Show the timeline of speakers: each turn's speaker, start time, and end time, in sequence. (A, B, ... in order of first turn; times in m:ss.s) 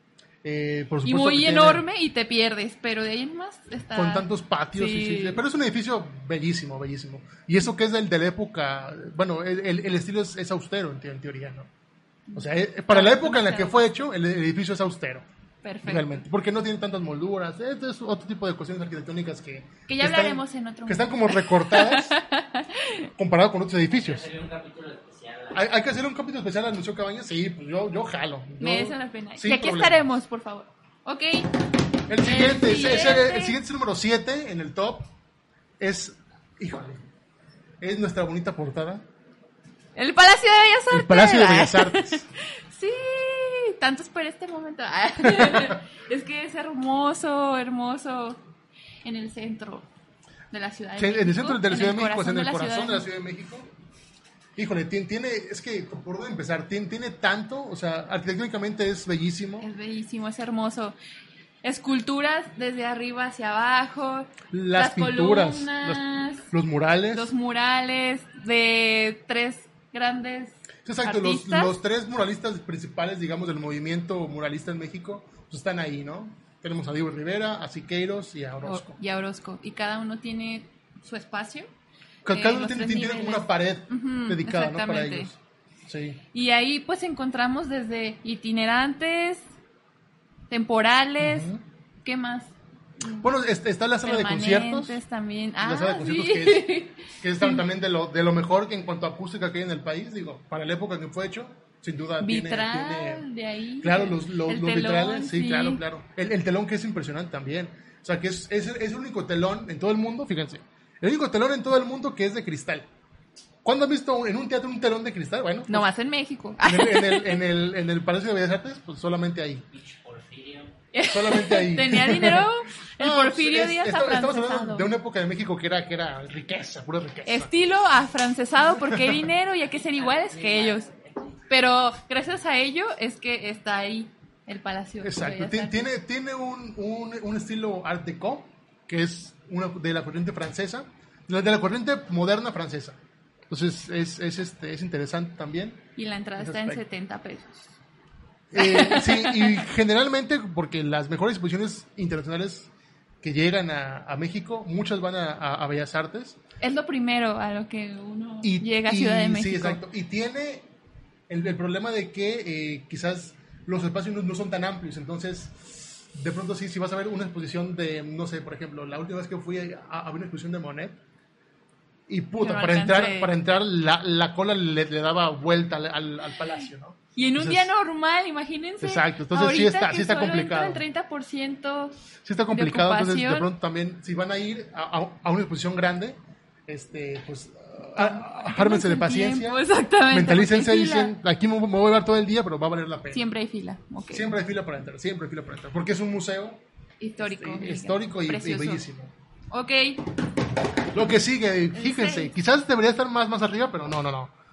0:00.4-0:01.8 A
0:01.0-0:05.4 B
0:03.9-0:11.7 A
0:12.3-0:13.8 B
0:12.4-0:15.2 A
0:15.6-0:16.2 B
0:15.8-0:22.2 A
0:19.9-0:23.1 B
0:23.2-0:24.3 A
0:23.9-0:25.7 C
0:25.5-0:30.0 A
0:28.6-0:31.5 B
0:32.1-0:35.1 A
0:32.2-0:33.6 B
0:35.8-0:37.0 A
0:37.8-0:39.0 A
0:40.0-0:48.4 B
0:40.9-0:42.2 A
0:45.2-0:45.8 A
0:49.0-0:49.9 B
0:50.5-0:53.1 B
0:51.0-0:53.7 A
0:54.6-0:59.7 A
0:59.6-1:01.0 B
1:01.6-1:06.5 B
1:04.5-1:07.3 A
1:07.1-1:11.8 B
1:10.8-1:19.0 A
1:18.6-1:21.7 B
1:22.2-1:26.2 A
1:22.3-1:25.3 B
1:26.3-1:29.5 B
1:30.5-1:31.5 B
1:31.2-1:31.6 A
1:32.0-1:33.3 B
1:33.2-1:35.0 A
1:34.0-1:37.6 B
1:35.6-1:43.3 A
1:42.2-1:45.8 B
1:43.8-1:52.9 A
1:53.6-1:55.9 A
1:55.7-1:57.4 B
1:56.6-1:59.6 A
1:59.7-2:00.8 C
2:00.9-2:04.9 B
2:01.1-2:02.5 A
2:03.0-2:07.5 A
2:07.3-2:10.9 B
2:08.6-2:09.2 A
2:09.8-2:11.4 C
2:11.5-2:15.9 B
2:15.0-2:23.0 A
2:23.5-2:25.8 A
2:26.0-2:27.7 B
2:26.4-2:26.8 A
2:28.5-2:32.7 A
2:28.6-2:29.6 B
2:33.2-2:36.4 A
2:36.6-2:39.8 B
2:38.4-2:40.7 A
2:41.3-2:51.0 A
2:52.1-2:57.7 A
2:52.4-2:53.3 B
2:57.2-3:02.0 B
2:58.8-3:00.8 A
3:02.2-3:13.3 A
3:02.5-3:03.5 B
3:08.0-3:11.2 B
3:13.1-3:14.3 B
3:14.1-3:16.6 A
3:17.0-3:18.8 B
3:17.2-3:19.1 A
3:19.5-3:20.0 B
3:20.9-3:24.3 A
3:21.7-3:22.4 B